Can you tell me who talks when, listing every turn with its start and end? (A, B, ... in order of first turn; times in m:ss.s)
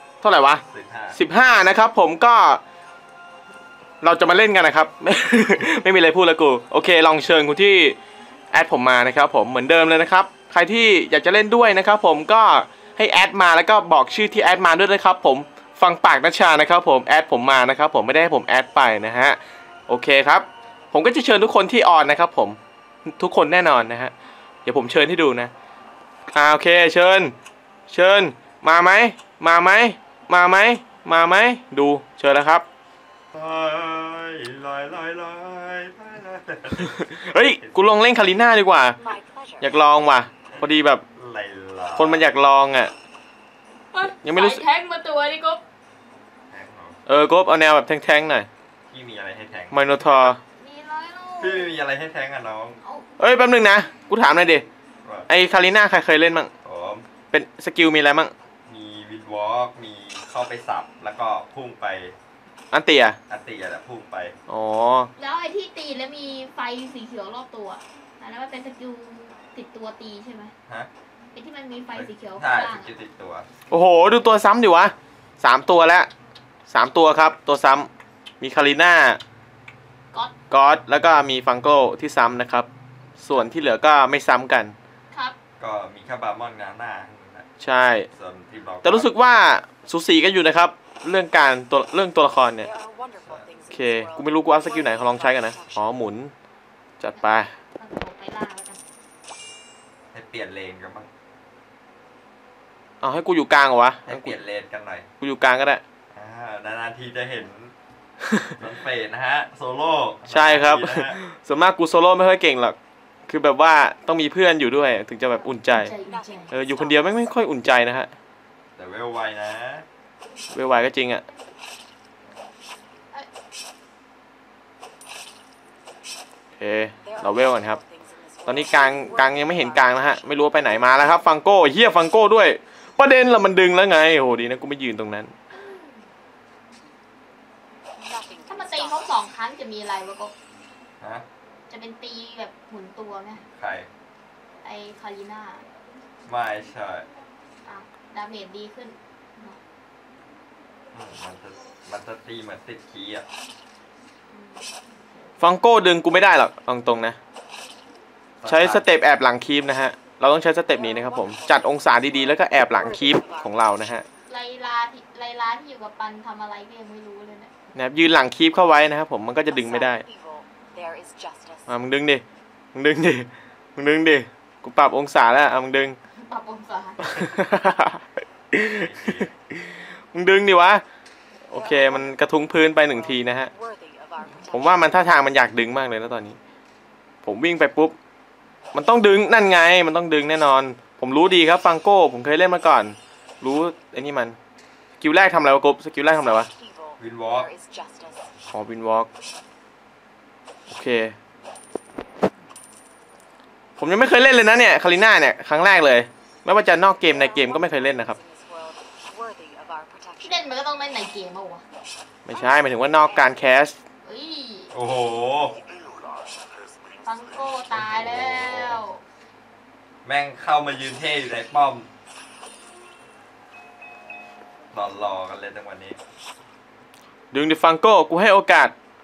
0:00.2-0:00.6 A
0:00.7-0:01.2 B
0:01.1-0:02.6 A
0:04.0-0:08.0 A
0:08.5-0:24.1 A
0:24.6-0:25.5 A
0:26.3-0:27.3 A
0:27.9-0:32.6 A
0:33.3-0:37.0 B
0:36.8-0:39.0 A
0:37.6-0:37.9 B
0:39.0-0:40.0 C
0:39.6-0:41.0 A
0:40.5-0:42.3 B
0:42.0-0:42.9 A
0:43.9-0:45.6 D
0:44.2-0:44.6 A
0:46.5-0:47.0 B
0:47.1-0:48.5 A
0:48.9-0:50.0 B
0:49.7-0:50.4 A
0:50.5-0:51.7 D
0:51.4-0:52.8 B
0:52.8-0:53.1 D
0:53.2-0:54.6 A
0:55.3-0:56.5 A
0:56.6-0:57.1 B
0:57.3-0:58.3 A
0:58.7-1:02.2 B
1:02.7-1:03.2 A
1:03.3-1:04.3 B
1:04.5-1:05.1 A
1:05.2-1:10.5 D
1:11.3-1:12.9 D
1:11.9-1:13.5 B
1:13.7-1:16.1 A
1:16.7-1:17.9 A
1:18.4-1:19.2 A
1:20.5-1:22.7 A
1:23.2-1:24.8 A
1:25.1-1:25.4 D
1:25.6-1:27.5 B
1:27.6-1:28.1 A
1:28.1-1:29.1 B
1:28.8-1:32.7 A
1:32.6-1:36.1 C
1:33.7-1:36.3 A
1:37.0-1:37.5 A
1:37.2-1:38.8 D
1:40.1-1:41.1 B
1:43.0-1:44.3 A
1:44.1-1:45.1 B
1:45.2-1:45.8 A
1:46.1-1:47.7 B
1:48.2-1:48.5 A
1:48.6-1:51.2 B
1:50.3-1:52.8 A
1:53.3-1:55.9 A
1:55.6-1:56.5 D
1:55.8-1:57.4 C
1:56.5-1:58.1 A
1:58.8-1:59.8 B
2:00.5-2:01.2 A
2:06.6-2:07.8 A
2:07.0-2:11.2 C
2:08.5-2:15.3 A
2:15.5-2:16.0 D
2:18.0-2:19.2 C
2:18.5-2:20.3 D
2:21.7-2:23.4 D
2:23.6-2:23.9 B
2:24.6-2:25.6 D
2:26.3-2:27.1 B
2:27.6-2:29.6 D
2:30.9-2:33.2 B
2:34.3-2:34.7 D
2:35.4-2:37.2 A
2:38.4-2:38.8 B
2:38.5-2:44.0 A
2:40.5-2:43.8 C
2:44.3-2:47.5 D
2:47.7-2:50.0 A
2:49.5-2:51.9 C
2:51.7-2:56.0 A
2:56.2-2:57.2 D
2:57.0-2:59.6 A
2:58.8-2:59.3 B
3:00.1-3:00.8 A
3:01.5-3:03.5 A
3:01.5-3:02.3 C
3:02.8-3:05.2 C
3:04.5-3:06.4 A
3:07.2-3:08.0 A
3:08.7-3:14.4 A
3:15.0-3:16.5 A
3:16.2-3:18.3 C
3:17.0-3:17.5 B
3:18.5-3:19.1 A
3:20.7-3:21.2 A
3:23.8-3:28.2 A
3:27.0-3:30.5 C
3:30.2-3:31.6 D
3:32.2-3:33.8 A
3:32.3-3:33.2 D
3:34.0-3:34.7 D
3:34.7-3:35.6 B
3:37.1-3:39.0 D
3:37.7-3:38.8 B
3:40.0-3:41.9 B
3:44.7-3:46.0 B
3:47.3-3:48.7 A